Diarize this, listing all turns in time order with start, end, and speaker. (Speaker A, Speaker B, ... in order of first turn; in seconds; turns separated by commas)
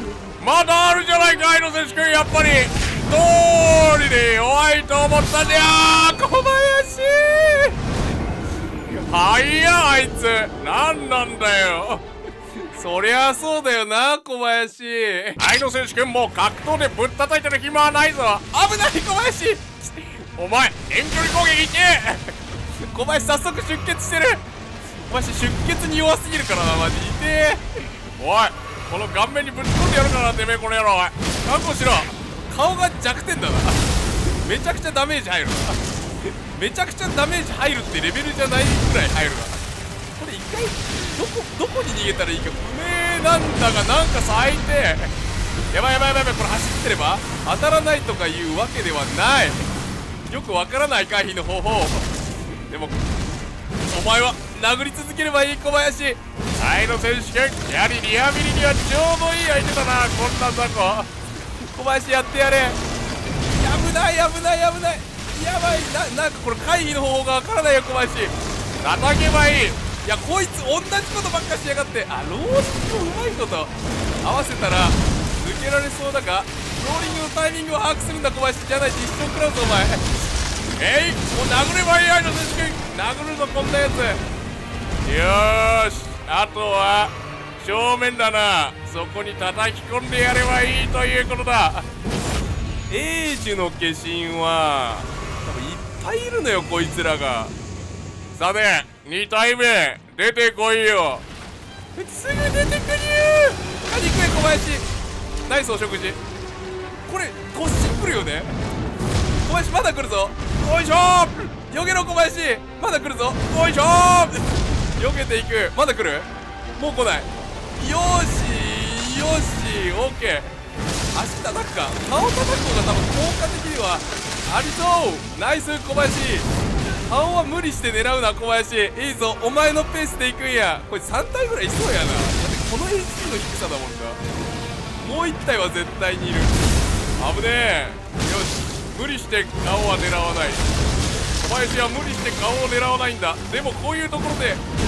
Speaker A: 0.4-6.3, Speaker B: 6.1-7.8, Speaker A: 9.0-12.0, Speaker B: 12.7-15.4, Speaker A: 15.4-18.5, Speaker B: 18.5-19.9, Speaker A: 20.4-22.3, Speaker B: 22.8-24.4, Speaker B: 25.1-27.9, Speaker A: 28.2-31.2, Speaker B: 31.4-33.8, Speaker B: 34.4-39.6, Speaker B: 40.1-45.1, Speaker B: 45.7-49.7, Speaker B: 50.3-52.1, Speaker B: 52.7-53.0, Speaker B: 53.9-56.2, Speaker A: 56.6-61.1, Speaker B: 61.7-62.8, Speaker B: 63.6-68.3, Speaker A: 68.8-69.8, Speaker B: 70.0-80.1, Speaker A: 80.8-84.2, Speaker B: 83.6-84.0, Speaker A: 85.0-91.8, Speaker B: 92.9-97.5, Speaker A: 98.3-101.2, Speaker B: 102.0-104.8, Speaker B: 105.5-106.2, Speaker B: 107.1-108.6, Speaker B: 109.4-120.5, Speaker B: 121.1-126.5, Speaker B: 127.0-134.2, Speaker B: 135.0-137.4, Speaker A: 137.3-138.0, Speaker B: 138.0-138.8, Speaker A: 138.9-140.6, Speaker A: 141.4-144.6